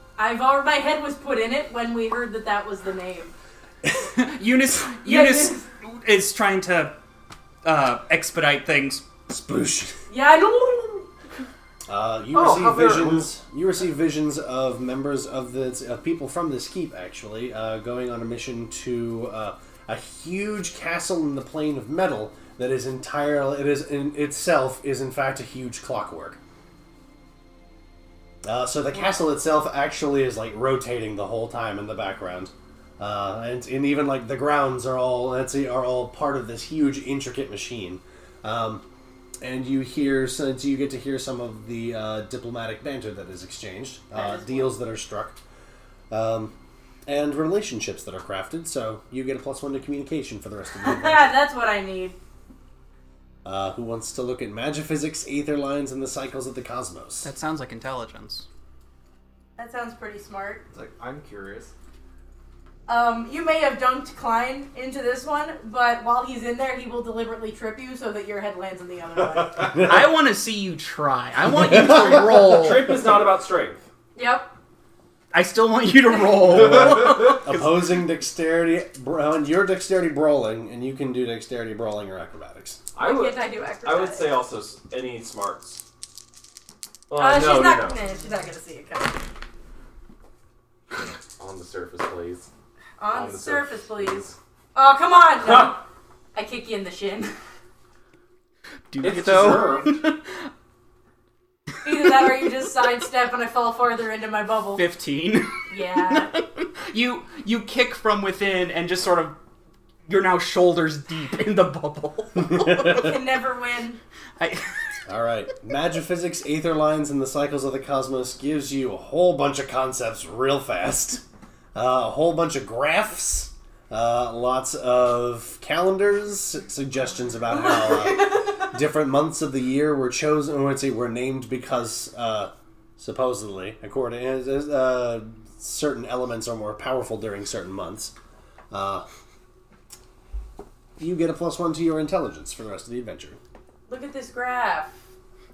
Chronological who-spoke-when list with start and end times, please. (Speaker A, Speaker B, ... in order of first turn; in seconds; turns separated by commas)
Speaker A: 0.2-3.3, Speaker B: 3.9-6.9, Speaker A: 5.0-5.6, Speaker B: 7.6-9.1, Speaker C: 9.3-9.9, Speaker A: 10.1-11.1, Speaker C: 11.9-26.4, Speaker D: 12.3-13.2, Speaker C: 28.4-38.8, Speaker C: 39.4-45.4, Speaker A: 44.1-44.7, Speaker C: 46.1-46.5, Speaker C: 47.0-51.4, Speaker A: 50.8-52.2, Speaker C: 53.4-57.3, Speaker B: 57.2-58.5, Speaker A: 59.6-60.6, Speaker D: 60.7-61.7, Speaker A: 62.9-69.8, Speaker B: 69.7-73.0, Speaker C: 71.6-72.2, Speaker E: 72.3-73.8, Speaker A: 74.2-74.5, Speaker B: 75.3-77.6, Speaker C: 76.4-82.8, Speaker E: 82.9-85.8, Speaker A: 83.0-84.4, Speaker E: 87.1-88.0, Speaker A: 87.2-89.2, Speaker E: 91.0-92.5, Speaker A: 93.0-95.8, Speaker E: 93.1-94.3, Speaker A: 96.3-97.3, Speaker B: 98.9-100.5, Speaker E: 99.0-99.9, Speaker A: 101.8-104.8, Speaker B: 104.8-109.3, Speaker A: 105.7-106.3, Speaker B: 110.1-113.2, Speaker C: 112.5-113.0, Speaker A: 112.8-114.0, Speaker B: 114.4-114.7, Speaker C: 115.1-121.2, Speaker C: 121.7-138.1, Speaker C: 138.7-139.1, Speaker C: 141.0-143.4, Speaker A: 143.9-145.0